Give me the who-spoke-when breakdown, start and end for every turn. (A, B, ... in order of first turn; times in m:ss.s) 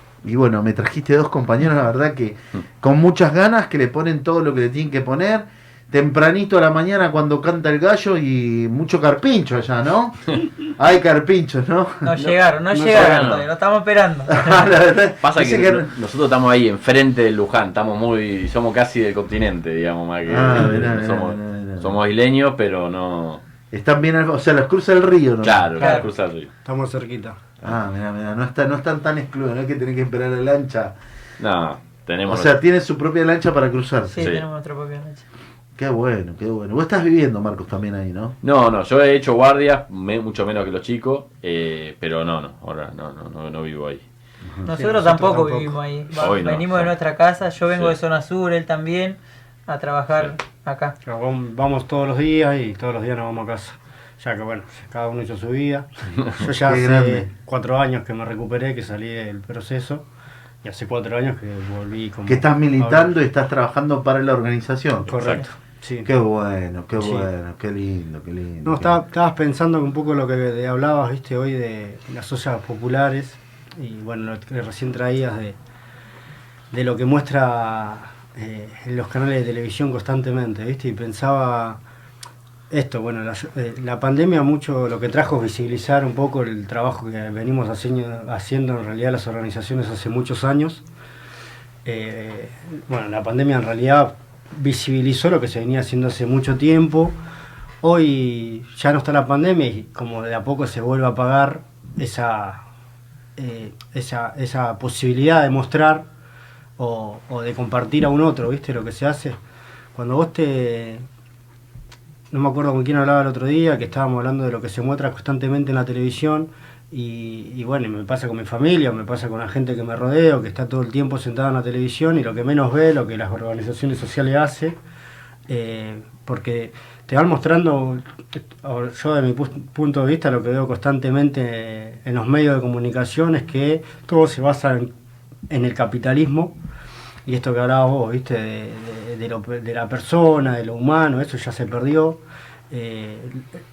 0:00.2-0:12.1 A
0:12.0-0:14.7 B
0:12.2-0:13.5 C
0:12.7-0:13.3 D
0:14.3-0:15.9 A
0:15.2-0:23.4 C
0:20.3-0:22.0 A
0:23.7-0:25.7 A
0:25.4-0:26.5 C
0:25.8-0:26.1 D
0:25.8-0:26.1 B
0:26.6-0:27.4 D
0:27.6-0:31.0 A
0:31.4-0:32.5 C
0:32.3-0:34.3 A
0:34.1-0:35.2 B
0:34.2-0:34.4 C
0:35.8-0:38.4 A
0:38.4-0:44.0 C
0:44.6-0:51.0 B
0:44.7-0:45.8 D
0:46.1-0:46.9 C
0:47.7-0:48.0 C
0:51.0-1:00.0 D
0:56.6-0:57.3 A
1:00.6-1:03.1 D
1:02.3-1:05.2 A
1:05.1-1:06.1 D
1:06.0-1:09.0 A
1:07.0-1:07.3 D
1:08.6-1:15.6 D
1:16.7-1:21.8 D
1:22.7-1:30.8 D
1:31.8-1:37.2 D
1:37.8-1:42.7 D
1:43.4-1:46.1 D
1:46.8-1:49.4 D
1:50.0-1:51.0 D
1:52.3-2:04.8 D
2:05.5-2:08.0 D
2:08.5-2:14.9 D
2:15.5-2:16.5 D
2:17.3-2:23.5 D